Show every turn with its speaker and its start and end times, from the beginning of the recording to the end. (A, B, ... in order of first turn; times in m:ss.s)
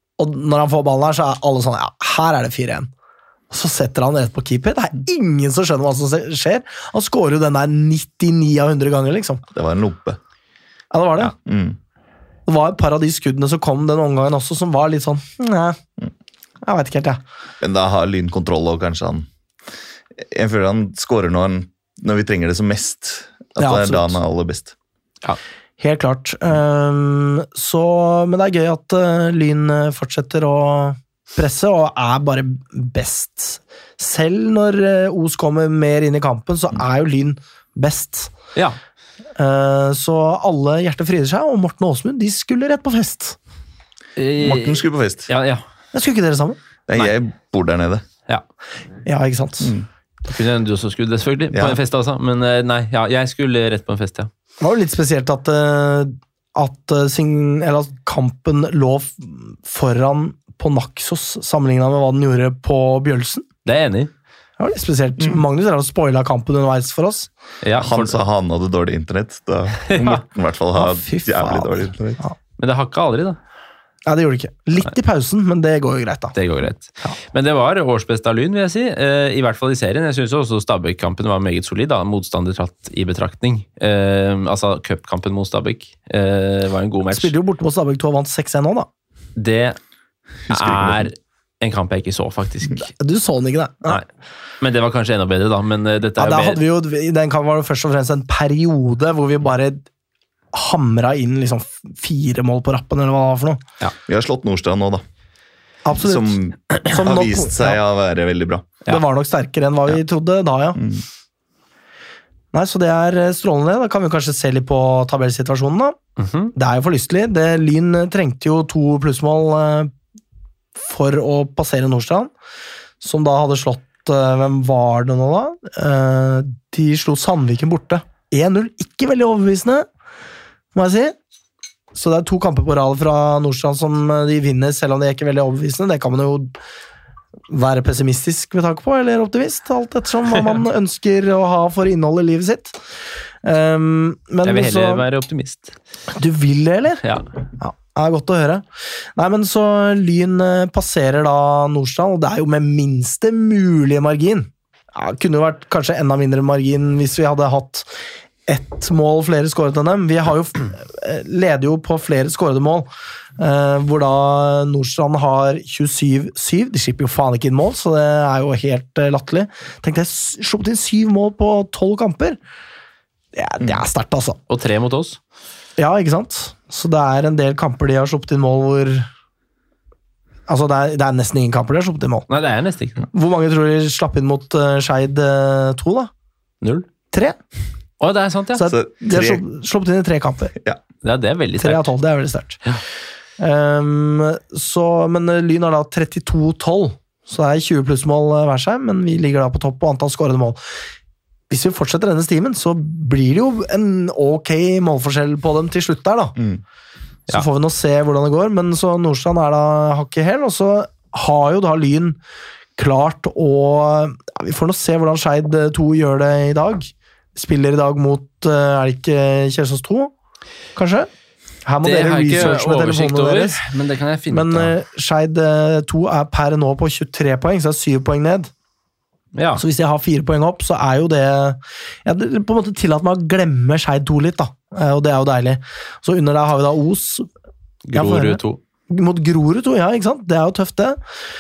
0:00.2-0:02.9 A
0:03.5-0:09.4 A
0:09.5-0:10.2 B
0:10.9-0:11.3 A
0:11.3-0:11.8 B
0:12.5-0:15.8 A
0:16.6-0:17.2 A
0:17.6-0:19.3 B
0:20.2-0:24.7 B
0:23.6-0:24.2 A
0:25.8-0:38.3 A
0:39.4-0:43.4 A
0:44.2-0:45.6 C
0:44.4-0:45.3 B
0:45.9-0:46.6 A
0:46.9-0:48.0 B
0:49.1-0:49.7 A
0:49.6-0:49.9 B
0:50.2-0:54.3 C
0:51.5-0:51.8 B
0:54.6-1:03.5 A
1:03.6-1:04.1 C
1:04.6-1:07.3 A
1:07.6-1:08.2 C
1:07.8-1:12.2 B
1:09.9-1:10.2 C
1:10.8-1:12.4 A
1:12.6-1:13.4 C
1:14.1-1:16.4 A
1:16.4-1:27.3 C
1:27.1-1:28.9 A
1:29.4-1:29.8 C
1:30.5-1:31.1 B
1:30.5-1:32.8 C
1:32.8-1:34.0 A
1:34.6-1:36.6 C
1:36.2-1:39.8 A
1:40.5-1:43.6 A
1:44.1-1:45.0 B
1:45.8-1:47.8 A
1:46.0-1:48.8 B
1:48.9-1:50.8 A
1:50.8-1:51.0 B
1:52.5-1:56.0 A
1:56.2-1:56.5 C
1:56.6-1:59.9 A
2:00.8-2:02.3 A
2:03.0-2:09.9 A
2:10.7-2:11.2 A
2:11.9-2:16.6 A
2:17.5-2:22.8 A
2:23.4-2:25.0 A
2:24.4-2:25.8 C
2:26.1-2:27.0 A
2:27.6-2:28.6 A
2:29.2-2:37.9 A
2:38.5-2:52.4 A
2:53.4-2:54.4 A
2:54.5-2:55.2 C
2:55.8-2:59.1 A
3:00.5-3:02.3 A
3:02.3-3:03.0 C
3:03.1-3:06.1 A
3:07.1-3:07.4 A
3:08.0-3:08.7 C
3:08.6-3:10.5 A
3:08.7-3:09.4 B
3:11.0-3:11.9 C
3:11.6-3:12.6 A
3:13.4-3:20.6 A
3:21.5-3:26.4 A
3:27.3-3:32.2 A
3:32.8-3:40.1 A
3:40.8-3:41.1 A
3:41.6-3:43.6 A
3:41.8-3:44.7 C
3:44.3-3:48.5 A
3:49.4-3:49.6 C
3:49.6-3:57.3 A
3:57.9-3:58.6 C
3:57.9-4:01.0 A